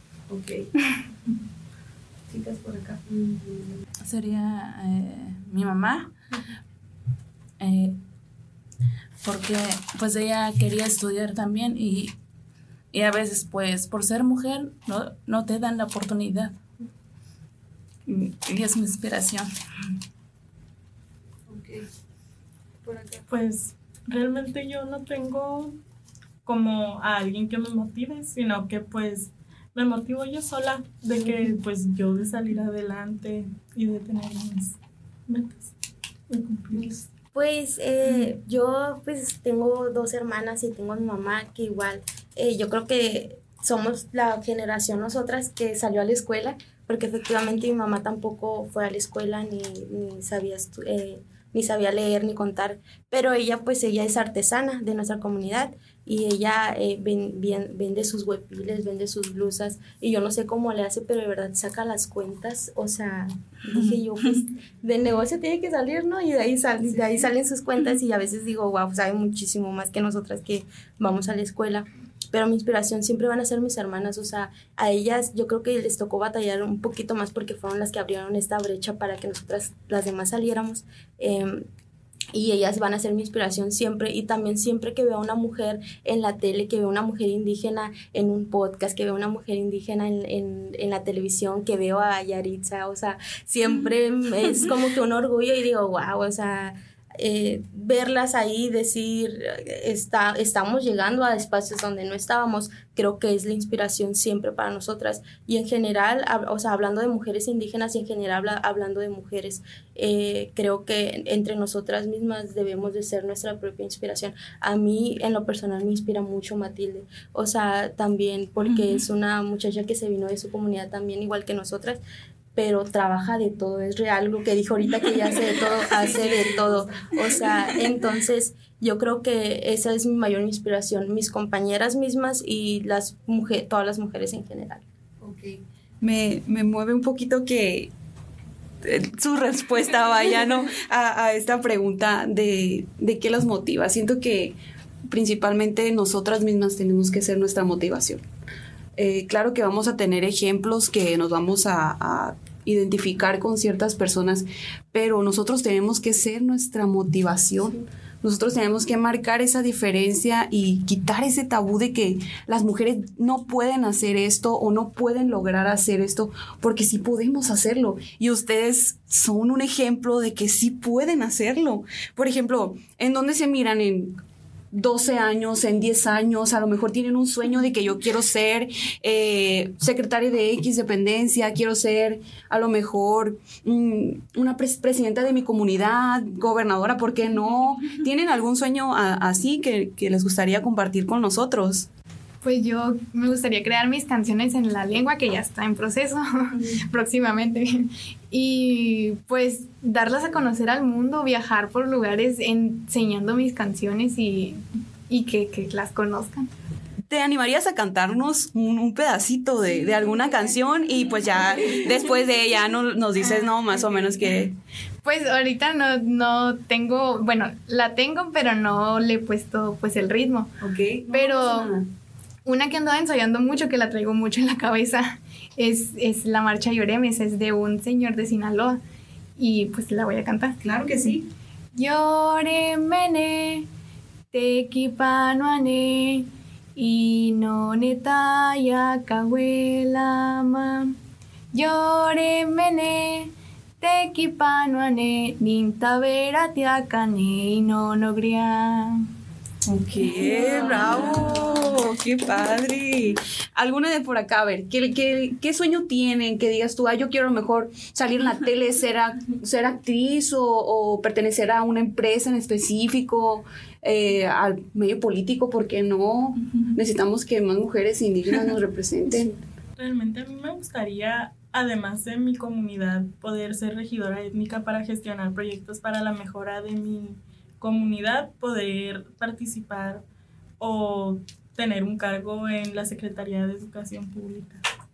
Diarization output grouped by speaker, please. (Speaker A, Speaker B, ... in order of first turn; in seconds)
Speaker A: 0.3-0.7, 2.3-3.8, 21.5-21.8, 22.8-23.3, 125.8-127.9, 135.2-137.9, 138.8-144.6, 145.1-148.2, 149.0-174.2, 174.7-191.9, 207.1-214.5, 220.6-221.9, 230.6-231.3, 249.7-269.4
Speaker B: 4.0-6.1, 7.6-8.0, 9.2-12.1, 12.9-16.6, 18.1-19.5
Speaker C: 23.3-25.8, 26.4-34.8, 35.3-35.7, 36.3-37.0, 269.8-280.0, 280.6-284.6
Speaker D: 37.3-81.7, 82.3-122.0, 122.5-134.8
Speaker E: 192.4-206.5, 215.0-220.5, 221.1-221.8, 222.4-228.8, 229.4-230.6, 231.7-233.7, 234.3-240.9, 241.5-249.0, 250.2-250.9